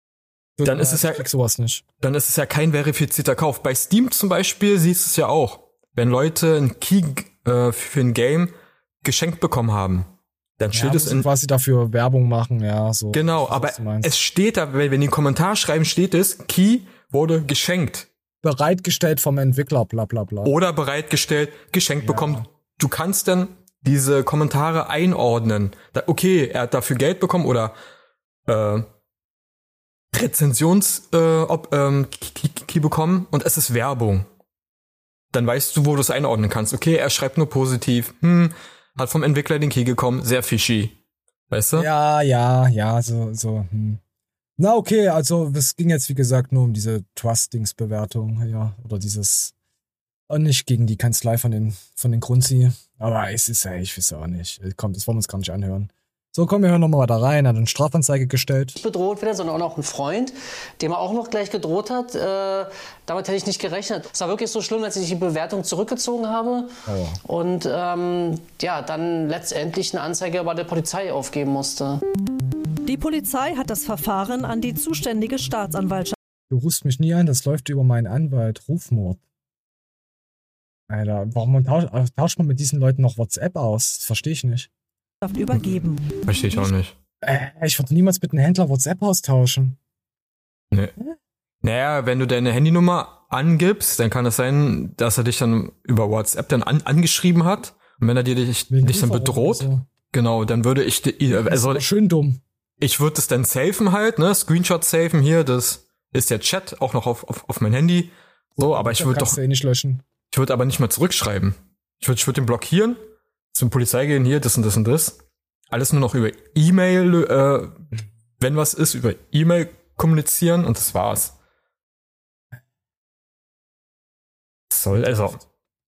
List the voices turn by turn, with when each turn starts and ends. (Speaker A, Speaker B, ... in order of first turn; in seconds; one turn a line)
Speaker A: 0.6-1.8
Speaker B: 0.6-1.2
Speaker B: 2.0-11.3
Speaker A: 10.7-14.1
Speaker B: 13.1-18.1
Speaker A: 18.4-20.5
Speaker B: 20.4-27.8
Speaker A: 22.0-22.5
Speaker B: 28.5-28.9
Speaker B: 30.1-34.3
Speaker B: 35.3-41.0
Speaker B: 41.5-41.9
Speaker A: 41.8-44.0
Speaker A: 44.6-49.5
Speaker A: 50.3-58.8
Speaker C: 58.8-72.0
Speaker A: 66.9-67.2
Speaker D: 72.9-76.2
Speaker A: 76.5-79.2
Speaker A: 80.9-84.7
Speaker D: 85.2-86.7
Speaker B: 85.5-86.9
Speaker A: 87.2-89.8
Speaker B: 91.6-101.8
Speaker A: 98.7-99.8
Speaker A: 101.3-102.4
Speaker B: 102.8-109.4
Speaker A: 108.6-110.0
Speaker B: 110.3-113.0
Speaker B: 113.5-115.2
Speaker B: 115.7-117.8
Speaker B: 118.4-121.3
Speaker B: 124.7-125.4